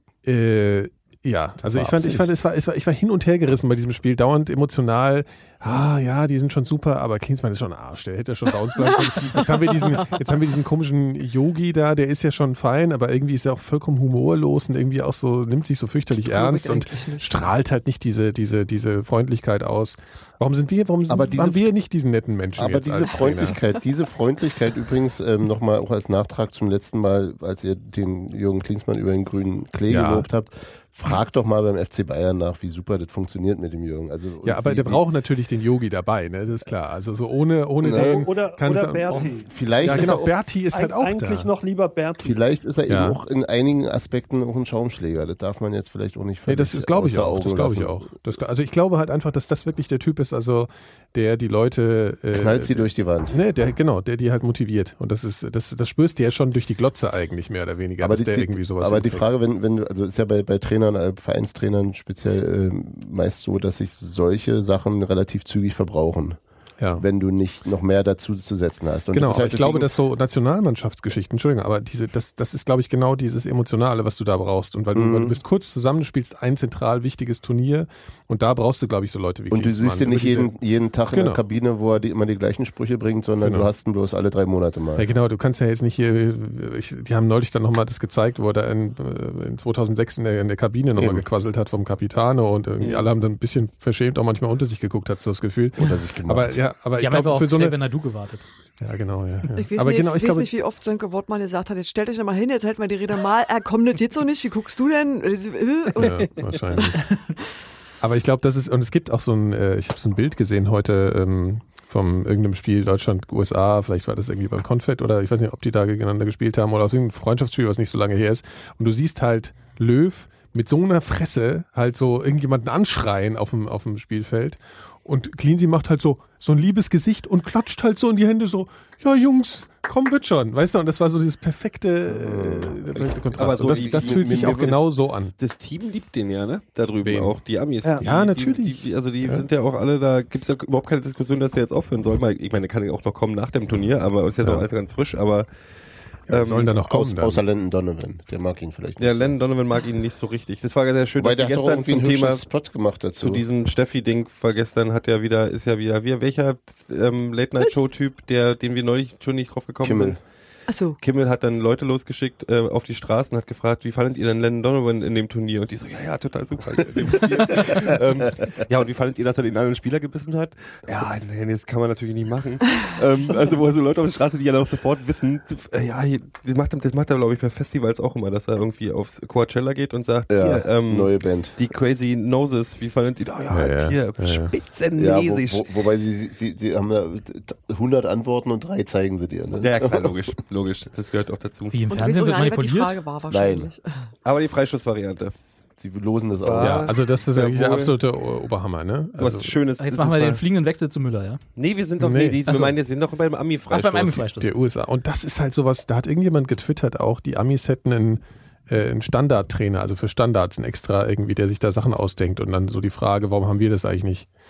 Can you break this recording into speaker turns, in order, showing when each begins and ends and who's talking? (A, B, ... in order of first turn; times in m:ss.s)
0:00.2-0:23.6 A
0:01.7-0:02.3 B
0:16.3-0:17.2 C
0:21.1-0:21.6 B
0:22.6-0:35.0 B
0:29.9-0:30.3 A
0:34.4-0:41.5 A
0:37.8-0:42.4 D
0:37.8-0:38.3 B
0:39.2-0:40.3 B
0:42.2-0:48.1 B
0:42.9-0:43.2 A
0:46.4-0:59.3 A
0:52.3-0:53.4 B
0:58.0-1:06.4 B
1:07.0-1:09.9 B
1:09.1-1:20.5 A
1:14.9-1:15.4 B
1:19.5-1:25.1 B
1:21.1-1:21.4 A
1:23.4-1:23.7 A
1:25.0-1:37.8 A
1:31.0-1:31.2 B
1:35.8-1:36.6 B
1:37.0-1:38.4 E
1:38.8-1:40.5 A
1:39.5-1:46.0 C
1:45.9-1:47.0 A
1:46.0-1:46.3 D
1:48.0-2:15.3 A
2:12.1-2:14.8 B
2:13.4-2:14.6 F
2:15.4-2:25.5 F
2:17.0-2:17.4 A
2:18.0-2:19.5 A
2:26.3-2:26.7 F
2:26.3-2:27.4 A
2:26.8-2:29.3 B
2:29.0-2:32.4 F
2:31.2-2:33.4 B
2:33.2-2:40.2 F
2:39.8-2:40.2 B
2:40.7-2:41.0 C
2:41.0-3:05.7 F
2:47.5-2:47.8 B
3:00.3-3:01.6 B
3:03.5-3:04.5 A
3:05.0-3:10.2 B
3:09.6-3:11.8 F
3:11.7-3:13.0 E
3:11.9-3:14.1 C
3:13.3-3:13.7 B
3:14.2-3:15.3 F
3:15.8-3:16.9 B
3:16.4-3:17.9 F
3:16.6-3:19.6 A
3:19.2-3:20.4 F
3:19.8-3:21.4 E
3:21.6-3:24.2 F
3:22.0-3:22.8 A
3:23.7-3:24.5 E
3:24.1-3:34.3 A